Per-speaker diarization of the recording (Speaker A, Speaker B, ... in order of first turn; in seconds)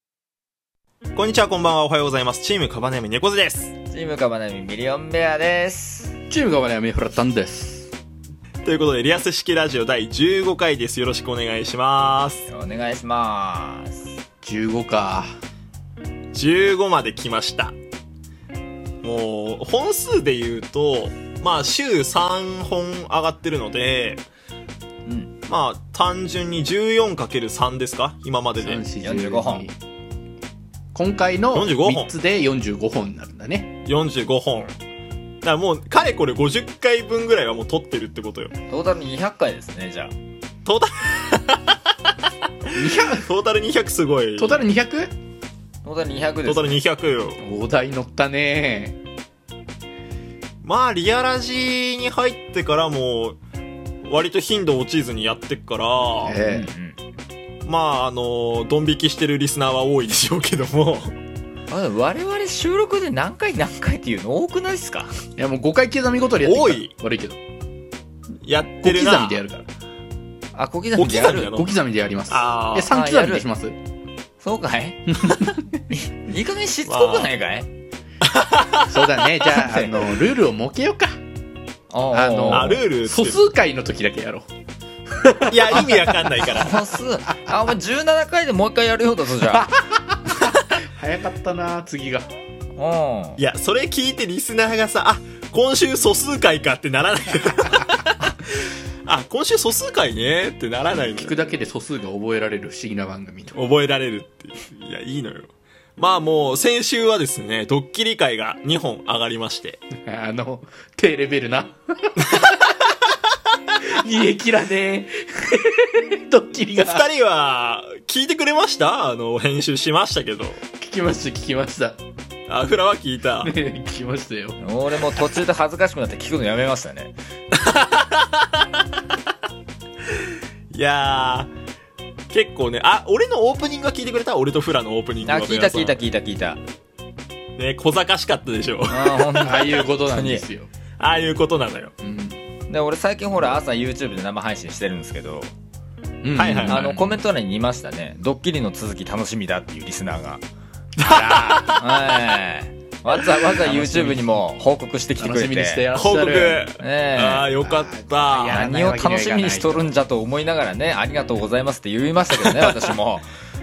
Speaker A: 1.1-3.7, 8.6-12.5, 16.3-17.7, 19.0-24.2, 25.5-28.8, 31.5-32.1, 33.8-34.8, 35.4-38.5, 40.6-41.8, 42.7-44.7, 46.5-47.4, 50.6-53.4, 54.0-56.4, 57.6-61.1, 66.4-66.9, 68.4-69.4, 71.0-71.8, 72.3-72.9, 76.9-77.3, 78.2-79.1, 82.5-83.4, 85.5-86.8, 93.4-98.5, 99.0-101.5, 103.5-109.8, 116.7-120.6, 122.5-123.5, 127.5-128.6, 130.7-131.5, 132.3-136.0, 137.6-139.5, 141.0-141.9, 146.3-146.8, 151.0-152.2, 155.9-158.6, 162.4-162.9
Speaker B: 3.9-6.2, 12.5-14.1, 25.1-25.3, 29.0-29.7, 38.7-40.1, 45.8-46.8, 56.4-57.0, 61.7-65.1, 70.5-71.5, 72.9-73.4, 74.4-77.7, 79.5-80.2, 81.9-82.8, 85.7-89.7, 92.8-93.4, 124.6-127.1, 135.2-136.6, 138.9-140.4, 142.7-145.5, 146.7-150.4, 151.8-155.8, 156.8-157.5, 158.4-163.3
Speaker C: 6.3-7.9, 14.4-15.4, 28.6-29.7, 30.9-33.8, 42.7-43.3, 44.4-45.1, 47.4-49.0, 56.2-56.7, 65.4-67.4, 68.8-69.7, 71.4-73.8, 75.2-75.5, 78.9-81.2, 82.1-84.5, 85.2-86.5, 89.6-92.3, 100.9-103.6, 110.0-112.8, 113.8-117.0, 120.8-122.0, 123.4-124.6, 139.4-140.7, 142.0-142.4, 146.2-147.2, 151.0-151.7, 153.6-154.2, 155.2-156.7, 157.6-159.9